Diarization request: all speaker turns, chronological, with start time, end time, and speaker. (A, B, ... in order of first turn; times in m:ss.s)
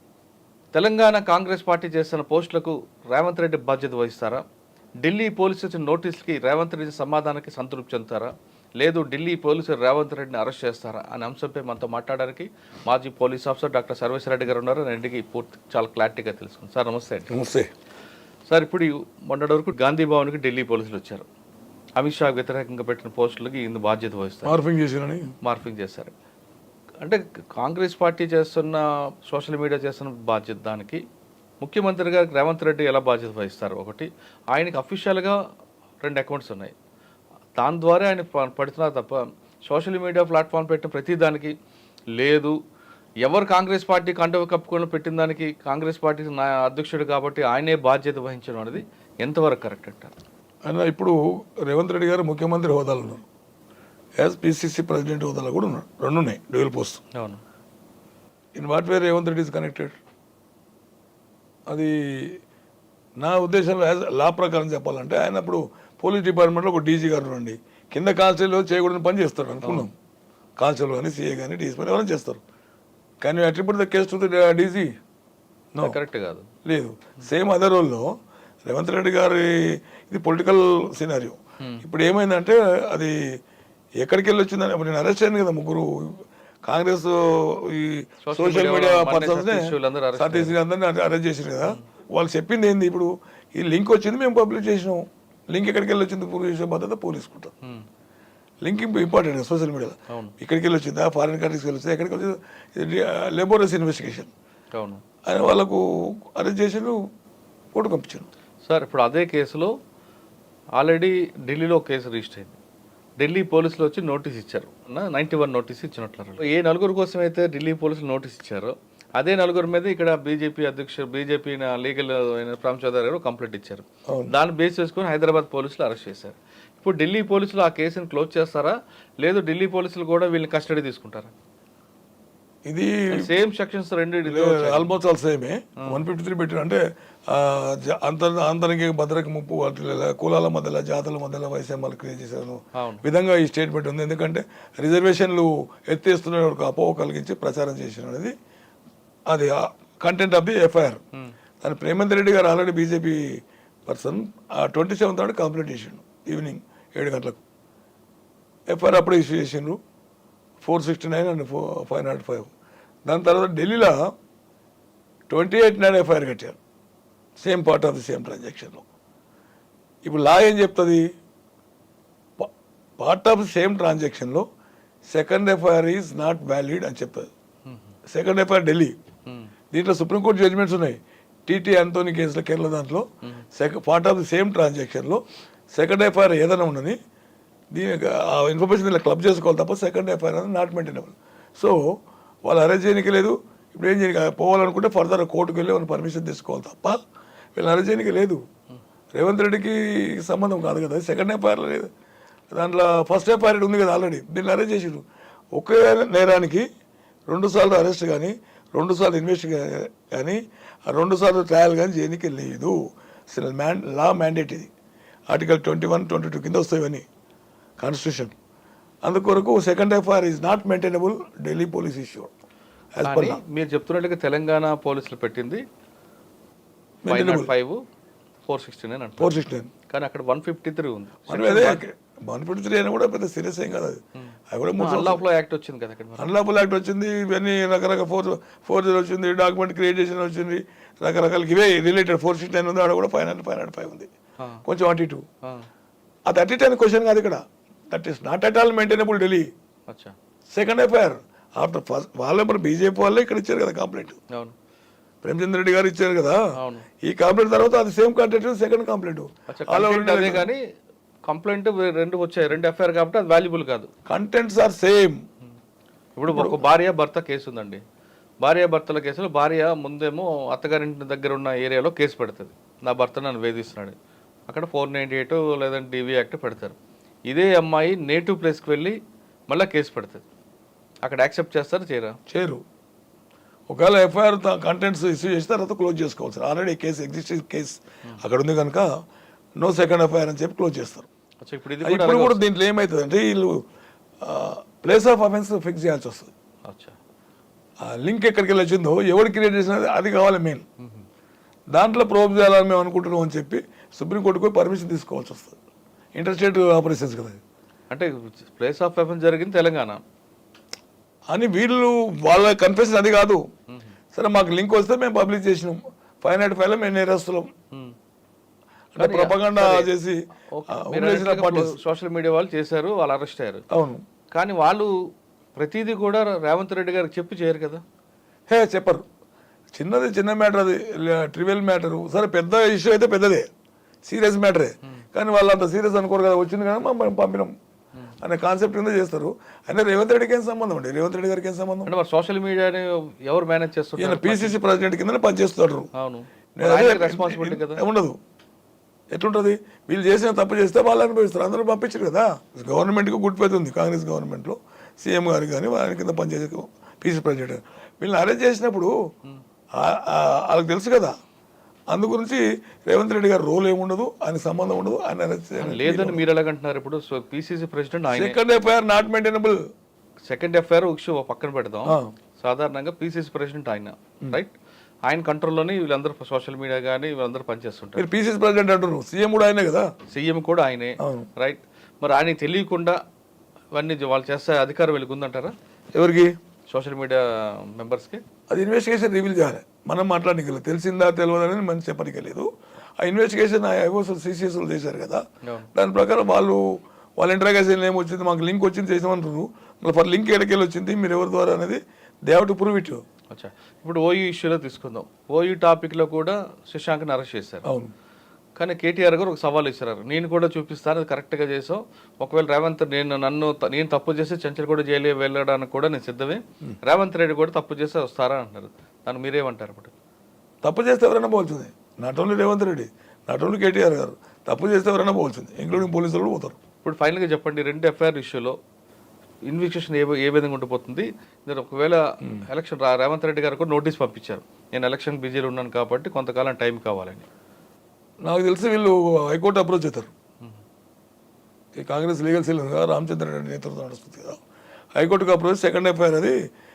0:00.7-0:04.4 A
0:05.0-0:17.3 A
0:17.3-0:17.7 B
0:18.5-0:21.2 A
0:22.0-0:24.6 A
0:24.4-0:25.3 B
0:25.4-0:26.1 A
0:27.0-0:31.0 A
0:31.6-0:35.4 A
0:36.0-0:36.7 A
0:37.6-0:41.5 A
0:42.2-0:42.5 A
0:43.2-0:50.1 A
0:50.6-0:53.2 B
0:54.2-0:57.0 B
0:57.1-0:57.4 A
0:58.6-1:00.0 B
1:01.7-1:02.4 B
1:03.2-1:09.9 B
1:10.6-1:12.4 B
1:13.2-1:14.9 B
1:15.8-1:16.4 A
1:16.6-1:18.1 B
1:18.7-1:23.2 B
1:21.6-1:21.8 A
1:24.0-1:37.5 B
1:28.2-1:30.6 A
1:38.6-1:44.3 B
1:44.7-1:45.0 A
1:45.2-1:47.0 B
1:47.7-1:48.3 B
1:48.6-1:49.7 A
1:50.8-1:52.6 A
1:53.2-2:11.3 A
2:04.1-2:04.3 B
2:12.6-2:13.3 B
2:13.1-2:14.9 A
2:14.2-2:28.3 B
2:22.8-2:23.0 A
2:29.3-2:31.0 B
2:31.6-2:37.4 B
2:38.7-2:39.8 B
2:40.6-2:42.5 B
2:43.0-2:44.1 B
2:45.3-2:46.6 B
2:47.4-2:48.8 B
2:50.0-2:51.0 B
2:52.4-2:54.4 B
2:55.1-2:57.3 B
2:57.6-2:57.9 A
2:58.1-2:58.9 B
2:59.2-2:59.5 A
2:59.7-3:07.0 B
3:07.7-3:17.0 B
3:17.6-3:18.4 B
3:19.1-3:21.9 B
3:22.5-3:25.0 B
3:25.5-3:26.6 B
3:27.3-3:32.8 B
3:33.3-3:34.7 B
3:35.3-3:37.0 B
3:37.8-3:38.3 B
3:39.0-3:42.3 B
3:42.9-3:43.4 B
3:43.0-3:45.6 A
3:47.0-3:47.5 B
3:47.0-3:47.8 A
3:48.5-3:49.3 A
3:49.2-3:49.7 B
3:49.9-3:51.8 A
3:51.3-3:54.0 B
3:54.2-3:56.3 A
3:54.5-3:55.2 B
3:56.2-4:04.1 B
4:04.6-4:05.2 B
4:06.3-4:09.5 B
4:09.9-4:10.1 A
4:10.5-4:14.2 B
4:15.2-4:16.4 B
4:16.6-4:16.9 A
4:17.0-4:20.5 B
4:19.5-4:20.6 A
4:21.2-4:23.9 A
4:24.0-4:25.2 B
4:26.2-4:27.8 A
4:26.3-4:26.6 B
4:28.4-4:34.0 A
4:34.5-4:36.8 A
4:37.3-4:39.0 A
4:39.5-4:40.2 A
4:41.0-4:42.2 A
4:42.3-4:42.6 B
4:43.7-4:48.9 B
4:49.6-4:51.0 B
4:51.4-4:52.4 A
4:51.8-4:53.6 B
4:54.2-4:56.3 B
4:56.6-4:57.0 A
4:57.8-5:00.6 B
5:00.8-5:01.0 A
5:01.7-5:05.6 B
5:06.2-5:07.4 B
5:07.9-5:10.0 A
5:11.3-5:13.4 B
5:14.1-5:17.5 B
5:18.9-5:21.7 B
5:19.0-5:19.9 A
5:20.5-5:23.6 A
5:23.7-5:24.0 B
5:24.3-5:24.9 A
5:25.6-5:27.8 A
5:28.5-5:29.0 B
5:29.7-5:33.5 B
5:34.0-5:37.5 B
5:38.2-5:41.9 B
5:41.8-5:44.6 A
5:44.0-5:45.9 B
5:45.9-5:47.8 A
5:46.6-5:48.2 B
5:49.1-5:58.9 B
5:59.7-6:01.1 B
6:01.9-6:06.2 B
6:05.6-6:08.4 A
6:08.1-6:09.6 B
6:10.3-6:14.5 A
6:11.8-6:12.1 B
6:15.1-6:18.1 A
6:18.0-6:19.9 B
6:20.1-6:23.0 A
6:21.0-6:21.3 B
6:23.7-6:25.5 A
6:25.9-6:26.3 B
6:26.7-6:28.2 A
6:28.5-6:32.5 B
6:33.0-6:35.2 B
6:35.4-6:35.7 A
6:35.7-6:36.6 B
6:37.2-6:43.0 B
6:43.3-6:47.6 A
6:47.6-6:47.9 B
6:48.6-6:59.9 A
7:00.6-7:06.6 B
7:06.8-7:08.6 A
7:09.5-7:17.3 A
7:18.2-7:20.1 B
7:21.8-7:24.4 B
7:24.9-7:26.4 B